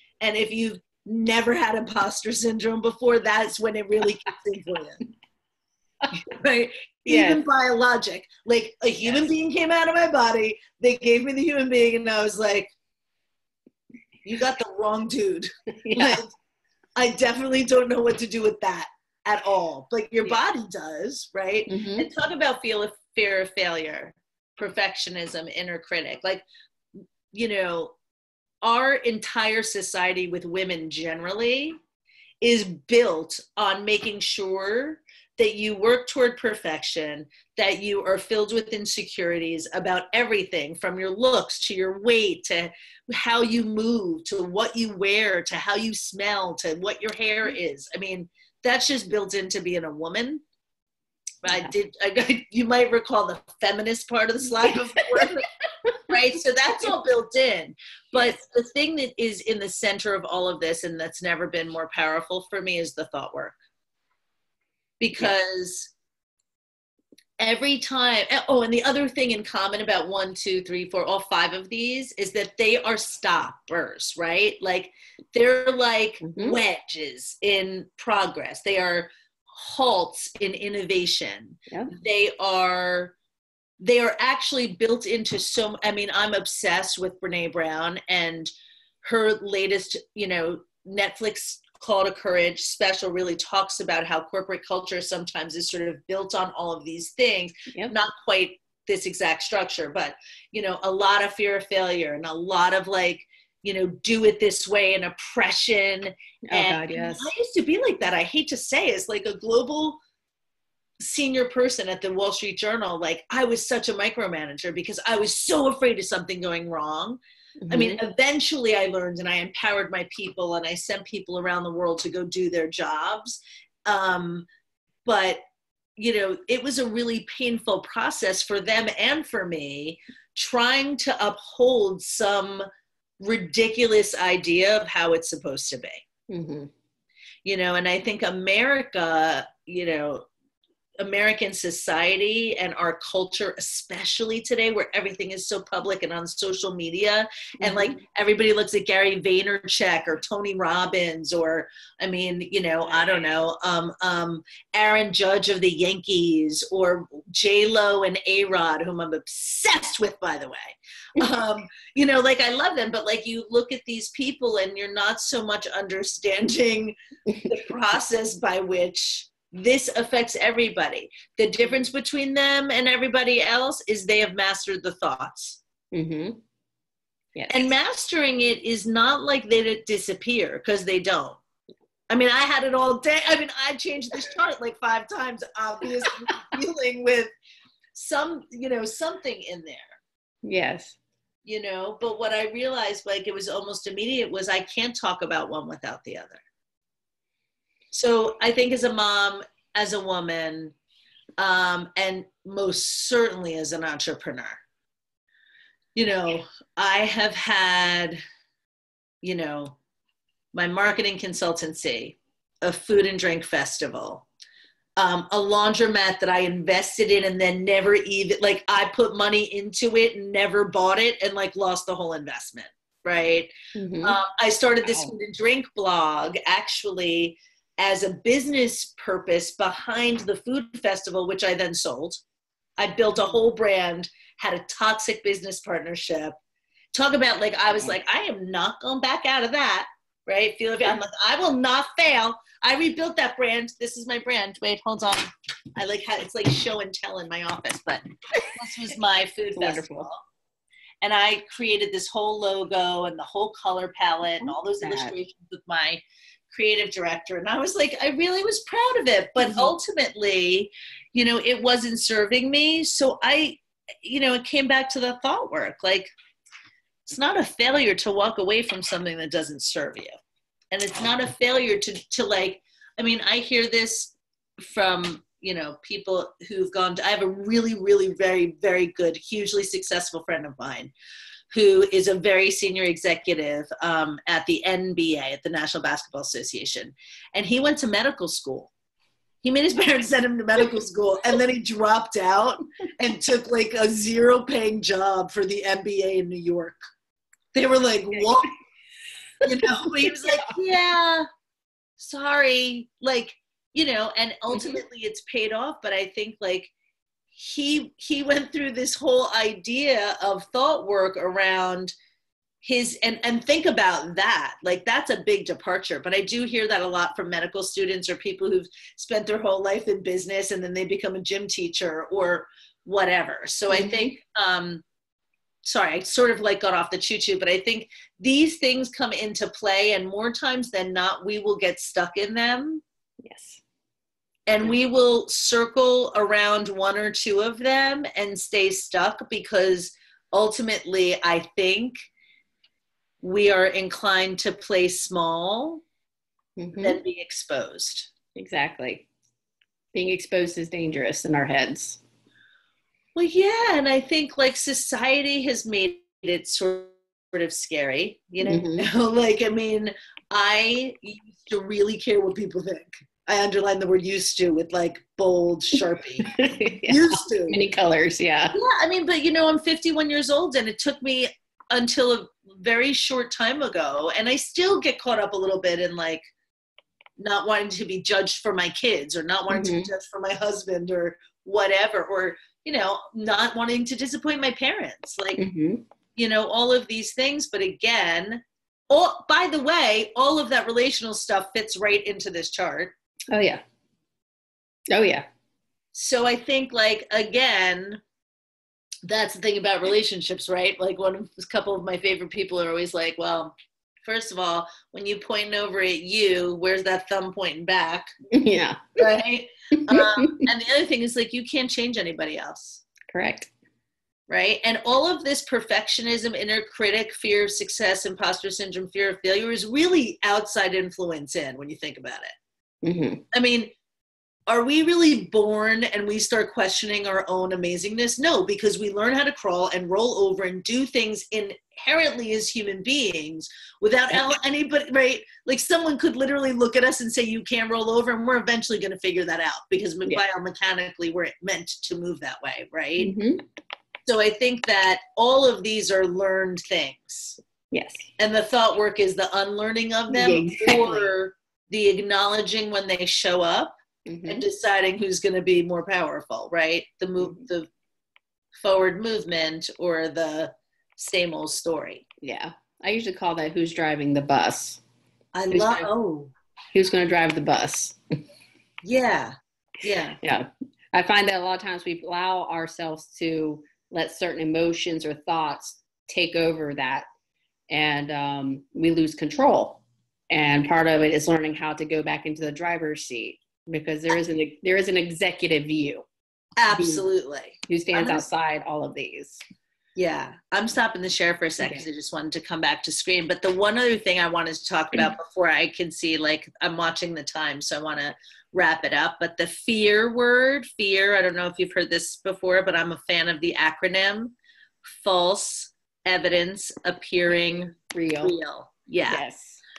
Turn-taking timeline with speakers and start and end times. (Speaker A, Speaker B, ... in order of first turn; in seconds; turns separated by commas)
Speaker A: 0.2-5.0, Speaker A: 6.3-12.7, Speaker B: 7.1-7.4, Speaker B: 9.0-9.3, Speaker A: 14.2-16.3, Speaker B: 15.8-16.2, Speaker A: 17.0-26.4, Speaker B: 21.7-22.1, Speaker A: 27.3-27.9, Speaker A: 28.6-31.8, Speaker A: 32.4-50.4, Speaker A: 51.4-55.5, Speaker A: 56.1-63.6, Speaker A: 65.0-65.9, Speaker A: 67.4-83.2, Speaker B: 76.2-76.6, Speaker B: 81.7-81.9, Speaker A: 83.8-88.5, Speaker A: 89.0-110.0, Speaker B: 106.5-107.3, Speaker A: 111.0-124.5, Speaker B: 117.6-118.0, Speaker A: 125.0-125.4, Speaker A: 126.0-132.6, Speaker A: 133.2-136.0, Speaker B: 136.3-136.7, Speaker A: 137.4-140.3, Speaker A: 141.0-175.6, Speaker B: 147.6-148.0, Speaker B: 152.9-153.2, Speaker B: 175.9-176.4, Speaker B: 177.3-177.7, Speaker A: 177.5-181.4, Speaker A: 182.1-187.3, Speaker A: 187.9-190.0, Speaker B: 190.4-190.9, Speaker A: 191.4-196.4, Speaker A: 197.9-200.7, Speaker A: 201.4-204.6, Speaker A: 205.9-208.2, Speaker A: 209.2-209.8, Speaker A: 210.5-214.2, Speaker A: 215.0-223.5, Speaker B: 223.8-224.2, Speaker A: 224.0-232.2, Speaker B: 224.8-225.1, Speaker A: 232.8-236.4, Speaker A: 236.9-250.2, Speaker B: 249.5-250.1, Speaker A: 251.0-266.1, Speaker B: 254.4-255.1, Speaker B: 259.4-259.8, Speaker A: 267.1-270.1, Speaker A: 270.7-280.9, Speaker A: 281.5-288.7, Speaker A: 289.4-296.8, Speaker A: 297.5-298.5, Speaker B: 298.1-298.4, Speaker B: 299.4-300.6, Speaker A: 299.4-301.2, Speaker A: 302.0-306.7, Speaker B: 304.5-304.8, Speaker A: 307.3-311.9, Speaker A: 312.6-324.8, Speaker B: 323.7-324.1, Speaker A: 325.6-332.8, Speaker B: 333.2-333.6, Speaker A: 334.5-342.1, Speaker A: 343.2-345.8, Speaker B: 346.6-347.0, Speaker A: 346.8-348.1, Speaker B: 348.4-349.1, Speaker B: 349.9-352.0, Speaker A: 353.1-367.6, Speaker B: 358.4-358.9, Speaker B: 366.2-368.6, Speaker A: 368.5-376.3, Speaker A: 377.2-385.4, Speaker B: 379.5-379.9, Speaker B: 385.4-385.8, Speaker A: 386.1-392.9, Speaker B: 393.3-393.6, Speaker B: 394.9-395.2, Speaker A: 395.9-398.0, Speaker A: 399.1-403.5, Speaker A: 404.0-408.1, Speaker B: 408.3-409.0, Speaker A: 409.0-412.9, Speaker B: 409.8-410.5, Speaker B: 413.1-413.5, Speaker A: 414.3-422.3, Speaker B: 422.8-423.2, Speaker A: 423.3-423.7, Speaker A: 424.5-443.1, Speaker B: 434.1-434.4, Speaker B: 443.0-443.4, Speaker A: 444.1-447.4, Speaker B: 447.7-448.1, Speaker A: 448.2-453.7, Speaker B: 450.1-451.1, Speaker B: 454.1-454.4, Speaker A: 454.2-457.7, Speaker B: 457.2-457.4, Speaker A: 458.5-462.0, Speaker B: 462.2-464.8, Speaker A: 465.3-466.3, Speaker B: 465.5-465.9, Speaker B: 466.7-468.0, Speaker A: 468.8-470.2, Speaker B: 470.2-477.0, Speaker B: 477.7-486.1, Speaker A: 486.6-488.3, Speaker B: 486.7-487.0, Speaker B: 487.7-489.4, Speaker A: 489.9-504.4, Speaker B: 491.6-491.9, Speaker A: 504.9-509.2, Speaker B: 507.3-508.4, Speaker B: 509.1-509.6